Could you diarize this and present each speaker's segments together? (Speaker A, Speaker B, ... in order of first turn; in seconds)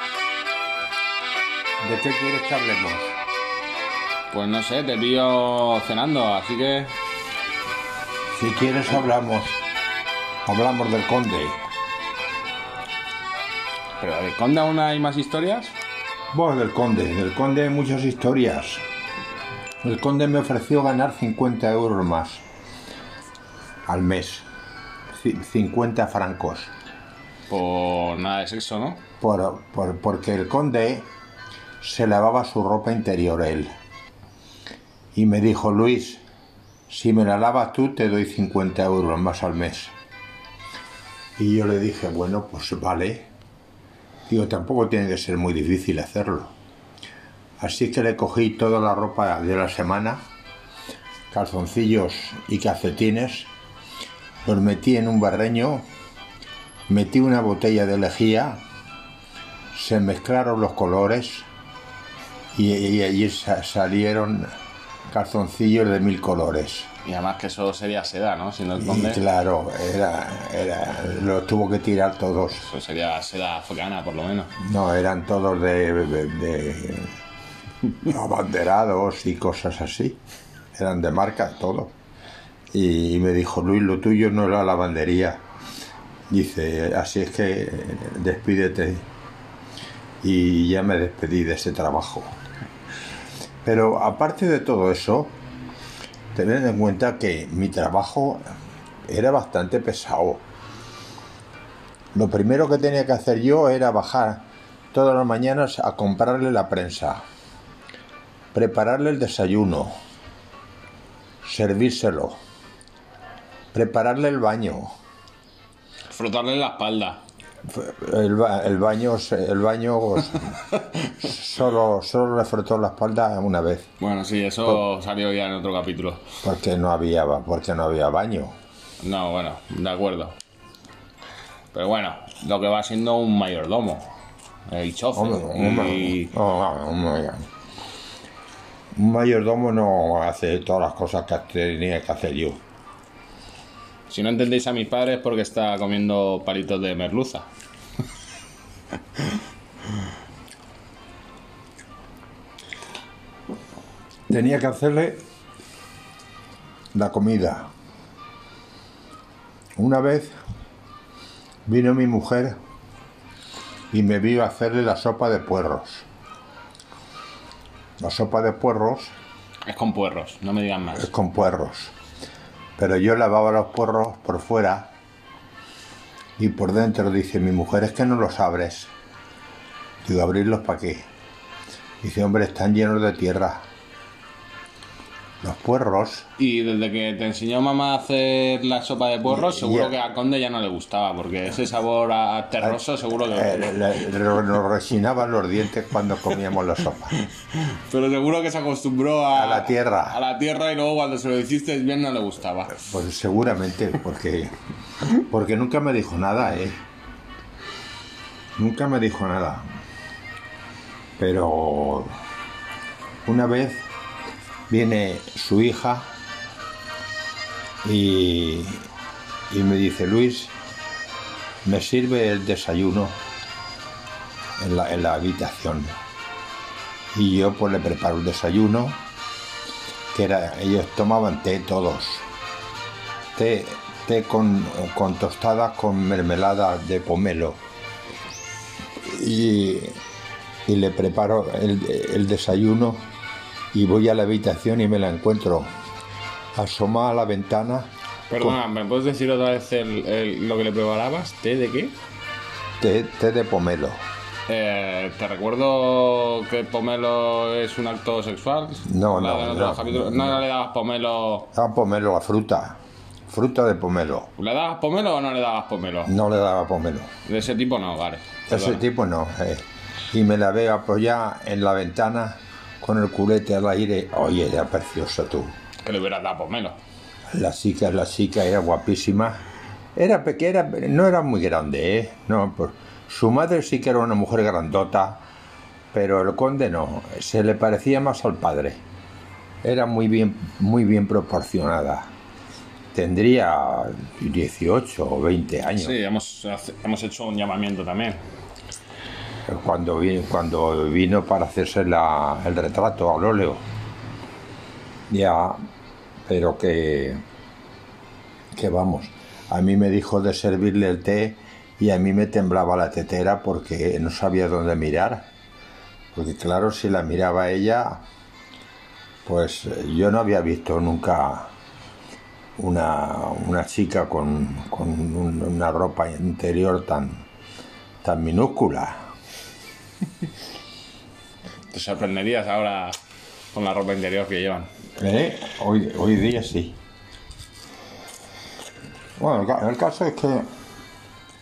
Speaker A: 1.8-3.2, 8.3-9.6, 10.4-11.6, 16.3-18.8, 19.8-22.4, 23.9-24.4, 25.1-26.7, 29.2-31.1, 31.8-33.7, 35.1-36.2, 36.9-39.9, 41.4-43.3, 44.3-46.5, 47.6-50.2, 51.3-53.5, 54.4-55.9, 56.9-58.6, 59.7-61.5, 62.5-64.5, 65.1-66.9, 68.8-72.6, 74.6-77.2, 78.0-80.2, 80.7-81.9, 82.7-85.4, 86.3-89.1, 90.2-92.3, 93.6-95.4, 96.3-98.4, 99.0-100.4, 102.1-107.2, 108.5-110.0, 111.4-112.4, 113.7-114.9, 117.6-120.6, 121.2-123.9, 126.4-128.6, 135.1-137.5, 138.9-142.6, 154.3-155.2, 156.9-157.7, 159.8-160.4, 161.7-162.6, 163.9-166.1, 168.0-169.1, 170.9-171.9, 172.8-174.9, 176.4-178.9, 180.0-181.1, 182.0-183.6, 185.4-186.3, 189.2-189.9, 193.3-197.2, 199.3-200.2, 202.7-204.5, 205.1-206.8, 208.6-209.7, 211.2-212.2, 213.2-213.9, 214.7-216.1, 217.8-218.9, 219.5-220.5, 221.6-223.2, 224.6-225.9, 227.1-229.0, 230.1-232.3, 233.3-237.6, 239.0-240.0, 240.7-243.0, 243.7-245.7, 246.5-248.6, 252.8-254.0, 258.9-260.4, 261.5-264.3, 266.0-267.1, 268.5-275.5, 277.3-279.4, 279.9-285.2, 285.9-288.8, 289.6-292.1, 292.9-295.9, 299.4-303.6, 305.1-305.6, 306.2-307.2, 308.5-315.3, 316.1-318.0, 319.2-321.5, 322.6-327.2, 328.0-329.0, 335.0-336.8, 339.2-340.5
Speaker B: 4.3-6.9, 14.0-15.8, 27.5-29.0, 67.0-69.2, 72.6-74.5, 116.1-117.2, 120.7-121.1, 124.0-126.2, 129.0-130.4, 131.7-134.1, 134.7-136.3, 144.1-147.5, 169.7-171.1, 186.4-193.8, 197.5-202.8, 248.3-252.0, 254.5-261.5, 264.4-266.1, 267.2-268.8, 275.8-276.8, 295.8-298.2, 331.7-333.0, 333.5-334.7